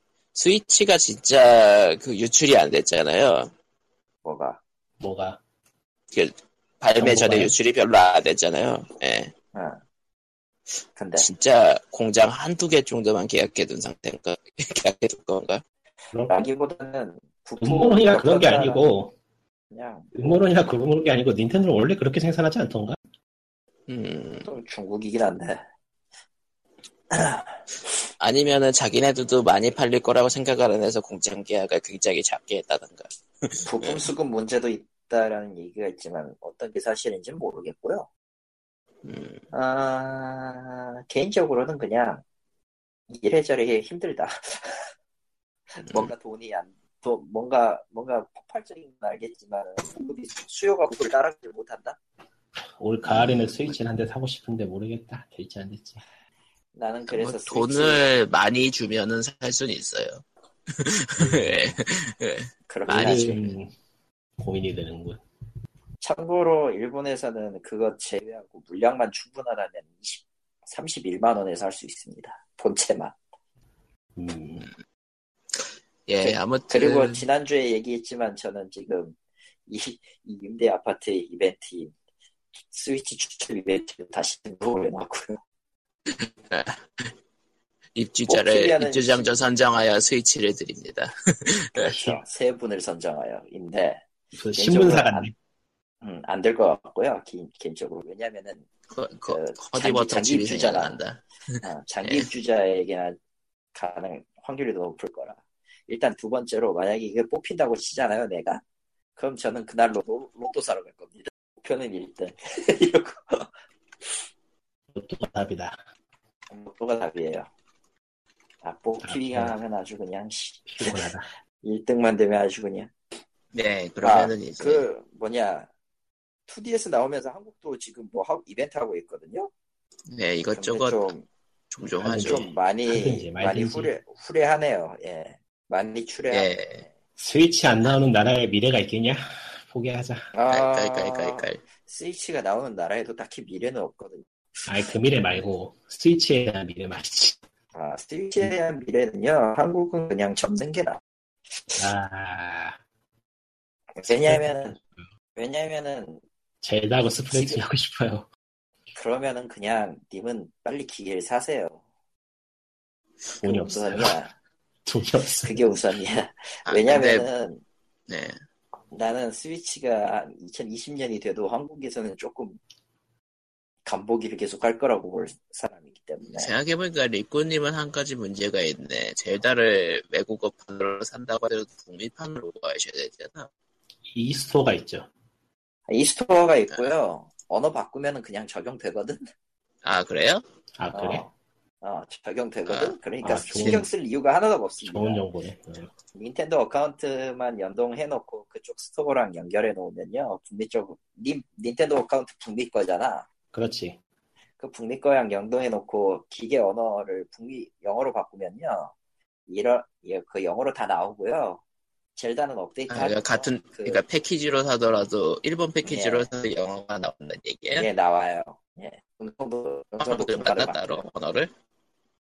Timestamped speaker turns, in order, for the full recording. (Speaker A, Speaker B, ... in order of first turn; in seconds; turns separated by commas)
Speaker A: 0.3-3.5, Speaker B: 4.2-4.6, Speaker C: 5.0-5.4, Speaker A: 6.1-9.3, Speaker C: 7.0-7.5, Speaker B: 10.9-11.3, Speaker A: 11.2-15.6, Speaker C: 16.1-16.4, Speaker B: 16.3-18.8, Speaker C: 17.6-19.1, Speaker B: 19.7-20.2, Speaker C: 20.1-23.0, Speaker A: 23.9-24.5, Speaker B: 24.4-25.6, Speaker B: 27.1-27.6, Speaker A: 28.2-34.1, Speaker B: 33.6-38.1, Speaker A: 39.0-39.4, Speaker B: 39.5-42.2, Speaker B: 43.1-44.9, Speaker B: 45.7-52.0, Speaker A: 45.9-46.1, Speaker C: 52.7-56.0, Speaker A: 53.0-53.7, Speaker B: 56.7-58.0, Speaker A: 57.1-63.3, Speaker C: 61.2-61.8, Speaker B: 62.7-63.5, Speaker C: 62.9-63.7, Speaker C: 64.4-65.2, Speaker B: 66.0-73.2, Speaker C: 74.2-74.7, Speaker A: 76.1-77.2, Speaker B: 76.2-81.9, Speaker B: 82.6-85.4, Speaker A: 86.1-87.1, Speaker A: 87.9-92.0, Speaker B: 88.3-89.4, Speaker B: 91.8-95.3, Speaker C: 91.8-92.2, Speaker C: 94.3-95.3, Speaker B: 96.0-98.7, Speaker A: 98.9-102.3, Speaker B: 99.3-101.0, Speaker B: 101.6-103.2, Speaker B: 103.7-108.6, Speaker B: 109.2-113.5, Speaker C: 114.9-115.8, Speaker B: 116.5-117.5, Speaker B: 118.6-121.1, Speaker C: 119.0-119.6, Speaker C: 120.7-121.3, Speaker B: 121.6-122.9, Speaker A: 123.5-124.8, Speaker B: 124.0-125.7, Speaker B: 126.5-129.5, Speaker A: 130.1-131.1, Speaker B: 130.5-131.3, Speaker A: 131.7-132.5, Speaker C: 132.0-133.9, Speaker B: 132.2-136.9, Speaker A: 136.3-136.8, Speaker C: 137.2-140.3, Speaker B: 140.3-144.7, Speaker A: 140.5-141.6, Speaker C: 144.7-147.4, Speaker B: 147.7-151.0, Speaker C: 151.7-152.8, Speaker B: 153.9-154.8, Speaker B: 155.4-156.2, Speaker C: 156.6-158.3, Speaker B: 157.3-157.6, Speaker B: 158.9-161.8, Speaker C: 163.4-164.2, Speaker B: 163.4-164.3, Speaker C: 164.9-166.0, Speaker B: 165.4-167.6, Speaker A: 166.7-167.3, Speaker A: 168.1-168.4, Speaker B: 168.9-172.6, Speaker B: 173.8-176.5, Speaker A: 176.3-183.5, Speaker C: 184.1-185.1, Speaker B: 185.9-189.2, Speaker A: 189.8-190.4, Speaker C: 190.8-191.2, Speaker B: 190.9-195.2, Speaker A: 192.7-192.9, Speaker C: 193.2-193.9, Speaker C: 194.8-195.9, Speaker B: 196.2-203.3, Speaker C: 203.5-204.0, Speaker B: 204.6-208.9, Speaker B: 209.5-211.6, Speaker B: 212.2-214.0, Speaker A: 212.9-217.9, Speaker B: 215.8-216.3, Speaker B: 217.7-221.1, Speaker A: 220.0-221.5